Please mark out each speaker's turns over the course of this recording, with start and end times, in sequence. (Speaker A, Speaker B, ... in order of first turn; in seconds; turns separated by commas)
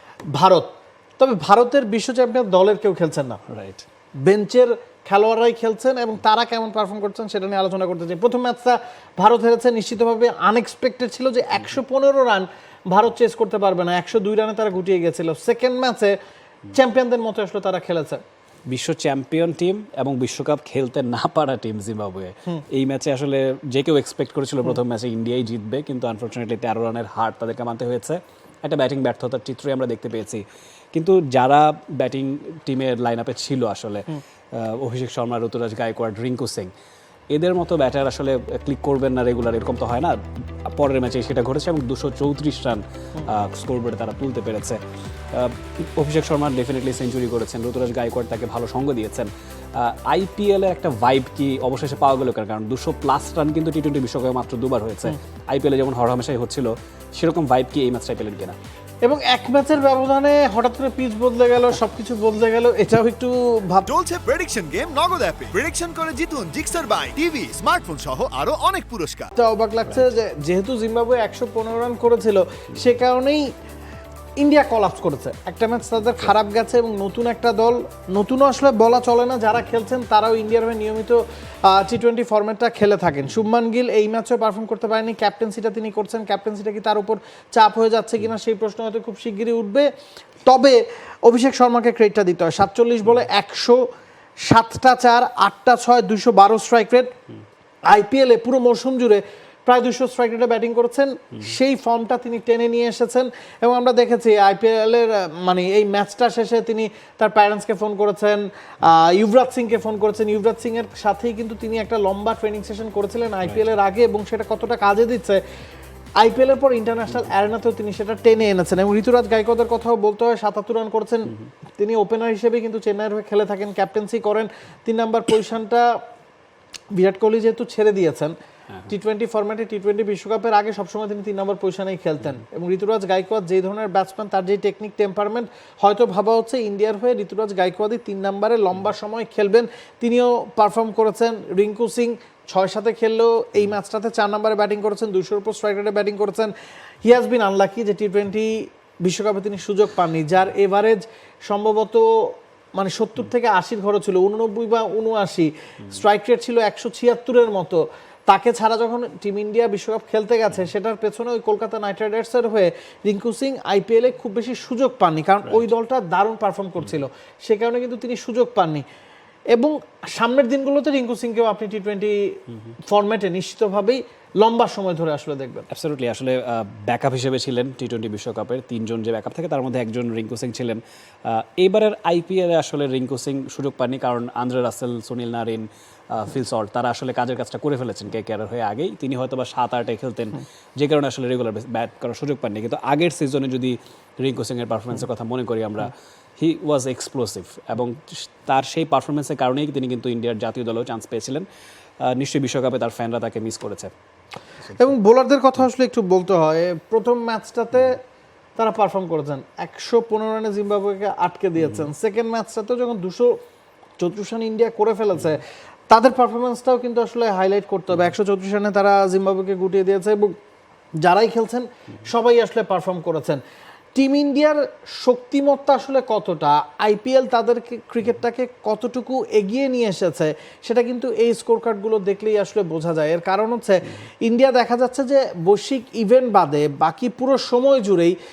Speaker A: 0.3-3.4, Speaker B: 3.5-3.8, Speaker A: 4.2-16.1, Speaker A: 16.7-18.2, Speaker B: 18.7-30.4, Speaker B: 30.9-36.7, Speaker B: 37.3-44.8, Speaker B: 45.3-58.5, Speaker A: 59.0-63.9, Speaker C: 63.8-69.3, Speaker A: 69.4-73.5, Speaker A: 74.4-89.9, Speaker A: 90.5-93.8, Speaker A: 94.5-97.1, Speaker A: 97.9-115.4, Speaker A: 116.2-125.9, Speaker A: 127.0-128.3, Speaker A: 128.9-146.5, Speaker A: 147.0-148.5, Speaker A: 149.0-152.0, Speaker A: 152.8-168.8, Speaker A: 169.5-172.3, Speaker A: 172.9-175.7, Speaker B: 175.7-201.4, Speaker B: 202.0-203.9, Speaker A: 204.8-208.0, Speaker A: 208.6-213.4, Speaker A: 214.0-220.4, Speaker A: 221.0-223.4, Speaker A: 223.9-238.2